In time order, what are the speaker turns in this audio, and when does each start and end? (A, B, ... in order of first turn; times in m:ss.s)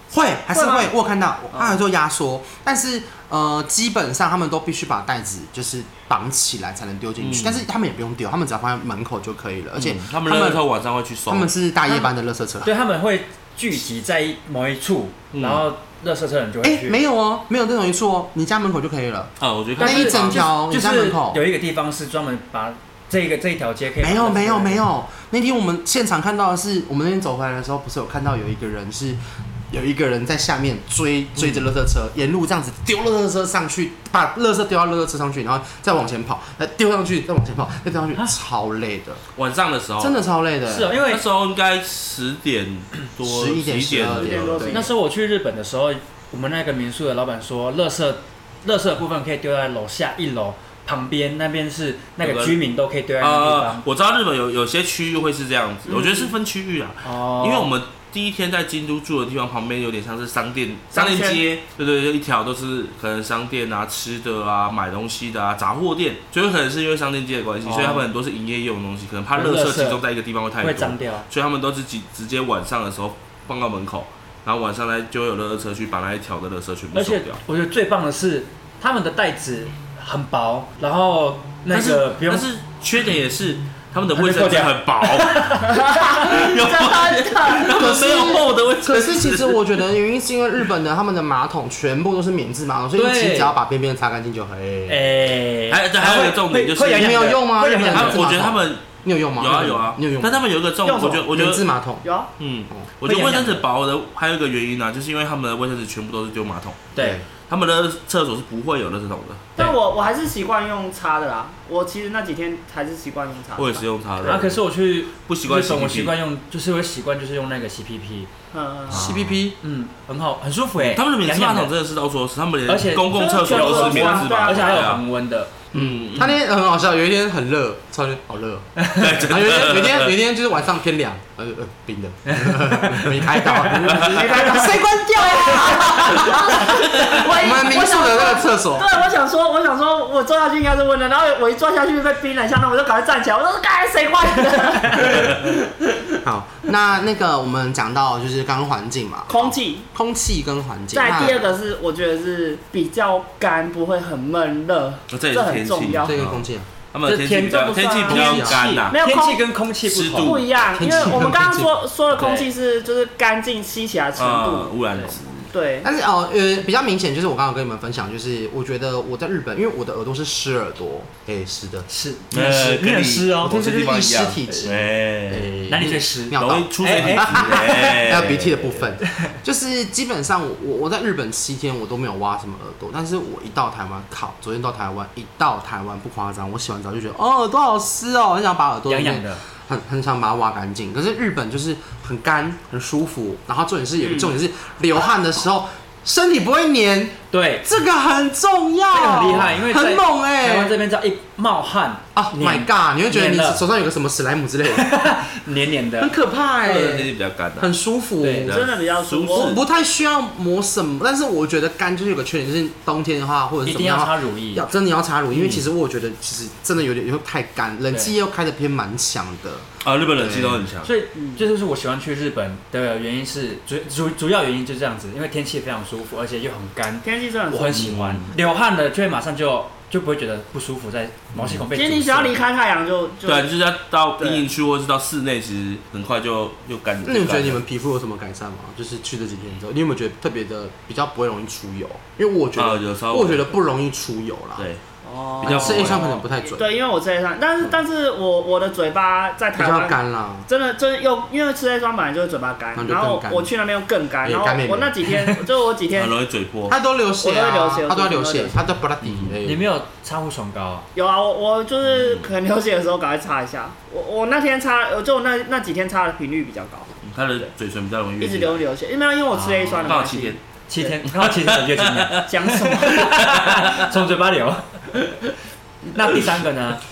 0:00.1-0:10.6 A
0:00.5-0:00.9 B
0:01.5-0:01.8 B
0:07.2-0:07.6 C
0:09.8-0:11.5 C
0:11.3-0:12.7 A
0:12.6-0:17.0 D
0:15.3-0:15.6 C
0:16.6-0:21.4 A
0:19.4-0:20.5 C
0:19.8-0:24.8 D
0:24.0-0:39.2 A
0:39.4-0:40.2 C
0:40.0-0:41.0 A
0:40.7-0:41.2 D
0:41.0-0:44.6 C
0:43.2-0:44.8 A
0:44.2-0:44.9 B
0:44.6-0:53.8 D
0:52.2-0:52.6 C
0:53.2-1:17.4 C
0:55.8-0:56.3 B
0:57.0-0:57.7 D
1:00.9-1:01.4 B
1:07.6-1:08.1 D
1:09.3-1:10.0 D
1:10.6-1:11.3 D
1:16.9-1:22.4 D
1:21.7-1:29.8 C
1:24.1-1:25.8 D
1:25.7-1:28.3 B
1:27.7-1:35.1 A
1:33.0-1:33.5 D
1:34.9-1:38.3 D
1:35.7-1:41.7 C
1:36.9-1:40.4 A
1:40.8-1:41.4 B
1:41.3-1:42.0 A
1:42.0-1:42.3 B
1:42.4-1:46.9 C
1:43.0-1:43.6 D
1:46.9-1:47.2 D
1:47.0-1:47.2 A
1:47.5-1:49.5 C
1:49.6-1:53.8 B
1:53.6-1:54.6 C
1:54.2-1:58.3 D
1:55.2-1:56.1 C
1:58.5-1:59.0 B
1:58.9-2:01.7 D
1:58.9-1:59.5 A
2:00.9-2:05.0 C
2:02.7-2:05.6 D
2:03.1-2:04.9 B
2:05.7-2:06.4 C
2:05.7-2:18.9 A
2:08.9-2:10.1 C
2:13.5-2:13.8 D
2:13.8-2:14.3 C
2:14.0-2:26.0 B
2:25.0-2:25.4 C
2:26.2-2:31.4 A
2:29.3-2:29.9 B
2:30.9-2:36.2 B
2:35.1-2:39.0 C
2:36.0-2:36.7 A
2:37.0-2:40.4 D
2:38.1-2:38.6 A
2:38.9-2:39.4 B
2:39.8-2:41.2 C
2:40.2-2:44.7 B
2:40.8-2:41.7 A
2:42.1-2:42.5 D
2:44.2-2:45.5 C
2:45.5-2:45.9 B
2:45.8-2:51.9 A
2:51.9-2:53.6 D
2:52.3-2:55.5 C
2:53.4-3:20.8 A
2:55.5-2:58.0 D
2:56.4-2:58.8 C
3:08.9-3:09.4 D
3:14.0-3:14.3 B
3:17.3-3:17.7 D
3:18.9-3:23.6 D
3:22.1-3:24.8 A
3:24.7-3:26.2 D
3:26.0-3:28.6 A
3:26.6-3:27.7 C
3:28.2-3:28.5 D
3:28.4-3:29.6 C
3:28.4-3:29.5 B
3:29.3-3:40.6 A
3:33.6-3:34.6 D
3:35.3-3:35.6 C
3:39.8-3:40.9 C
3:40.8-3:52.4 D
3:41.1-3:41.4 B
3:47.0-3:47.9 B
3:47.7-3:48.3 C
3:51.3-3:51.6 C
3:51.7-3:53.5 B
3:53.2-3:57.6 C
3:54.2-3:54.5 B
3:57.0-4:04.7 A
4:02.6-4:03.4 C
4:05.0-4:16.1 B
4:05.4-4:06.1 C
4:05.4-4:06.7 A
4:09.6-4:10.4 A
4:12.7-4:13.5 A
4:14.2-4:14.9 A
4:15.9-4:16.8 C
4:16.7-4:19.7 A
4:17.2-4:18.6 B
4:19.0-4:19.3 C
4:19.4-4:20.8 D
4:20.9-4:27.0 B
4:21.8-4:22.3 C
4:27.0-4:28.6 C
4:28.2-4:30.9 B
4:29.3-4:35.1 D
4:29.8-4:30.4 C
4:31.0-4:33.7 C
4:32.3-4:33.1 B
4:35.9-4:36.8 D